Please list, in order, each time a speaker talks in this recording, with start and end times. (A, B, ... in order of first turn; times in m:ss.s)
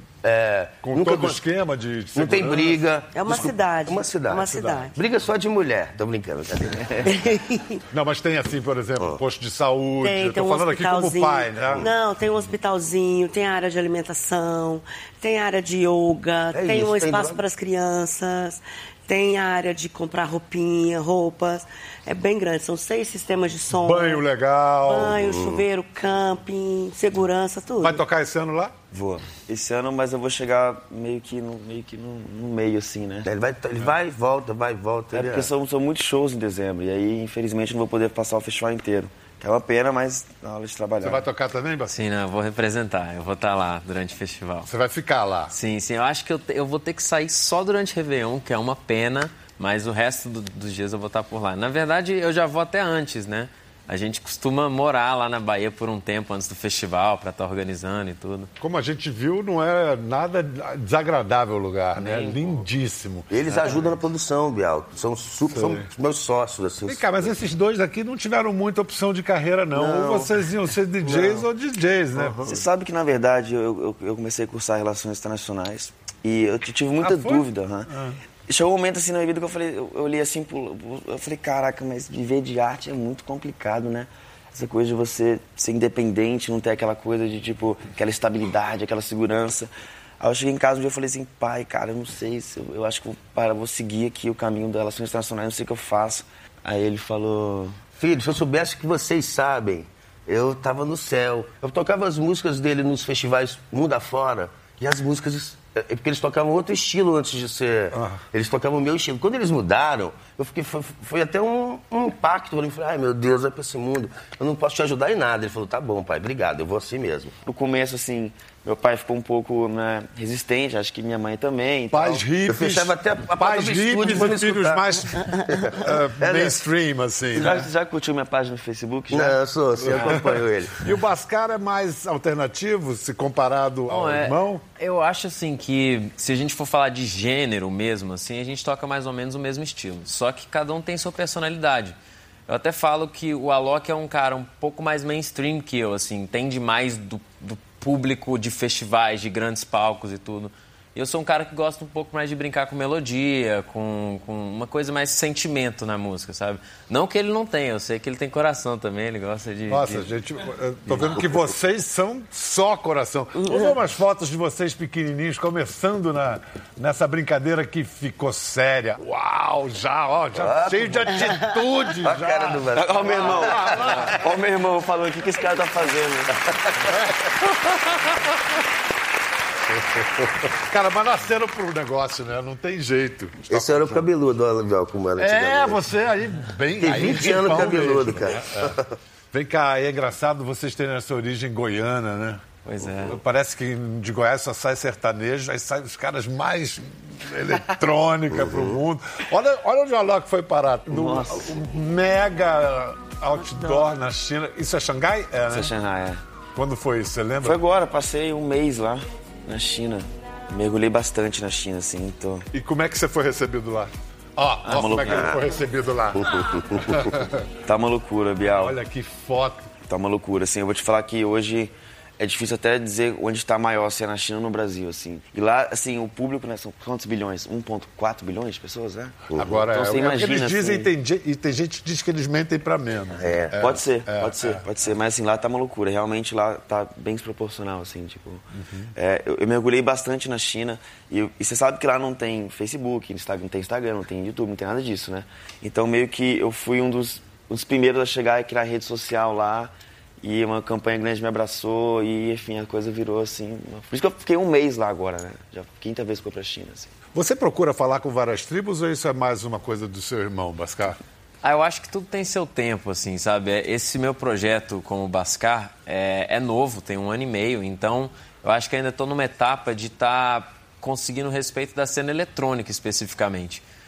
0:00.2-0:01.4 A
0:00.8-0:02.8 B
0:02.1-0:07.1 A
0:03.1-0:04.9 C
0:07.0-0:07.8 C
0:07.9-0:11.8 B
0:10.0-0:24.2 C
0:16.5-0:17.4 A
0:23.8-0:25.2 B
0:24.8-0:28.0 C
0:25.0-0:25.6 A
0:27.8-0:28.9 B
0:29.0-0:33.3 D
0:33.2-0:35.5 A
0:35.1-0:41.2 D
0:41.0-0:41.9 B
0:41.9-0:44.7 E
0:44.7-0:45.5 B
0:45.5-0:58.5 E
0:58.6-1:03.9 B
1:02.0-1:02.5 A
1:03.3-1:07.3 A
1:05.5-1:05.9 B
1:06.9-1:12.5 B
1:09.7-1:10.4 A
1:11.0-1:11.4 A
1:12.1-1:12.5 A
1:12.4-1:17.9 D
1:17.0-1:18.2 B
1:18.5-1:37.8 D
1:38.0-1:57.4 A
1:47.9-1:48.2 B
1:57.4-2:02.2 D
2:01.9-2:07.6 B
2:02.5-2:06.6 A
2:07.3-2:09.4 D
2:07.4-2:07.6 A
2:09.1-2:10.7 A
2:09.8-2:14.6 B
2:13.9-2:22.0 E
2:22.5-2:40.1 E
2:39.7-2:54.1 B
2:43.4-2:43.7 C
2:50.4-2:54.0 A
2:52.7-2:56.4 D
2:56.8-2:58.5 B
2:59.7-3:04.1 B
3:03.5-3:05.8 A
3:05.2-3:08.8 B
3:06.8-3:09.0 A
3:09.3-3:12.4 B
3:12.6-3:13.2 E
3:13.0-3:25.7 B
3:18.4-3:18.8 A
3:20.9-3:21.5 D
3:25.5-3:26.2 D
3:26.6-3:27.6 B
3:27.4-3:32.4 D
3:32.5-3:37.4 B
3:34.6-3:35.5 D
3:35.0-3:35.4 A
3:36.1-3:37.2 A
3:37.6-3:38.8 D
3:38.5-3:39.7 B
3:39.9-3:50.9 D
3:49.3-3:49.6 A
3:49.3-3:54.6 B
3:53.2-3:53.6 A
3:53.6-3:58.4 D
3:58.5-3:58.9 B
3:58.9-4:16.9 D
4:17.1-4:21.0 B
4:21.4-4:33.6 E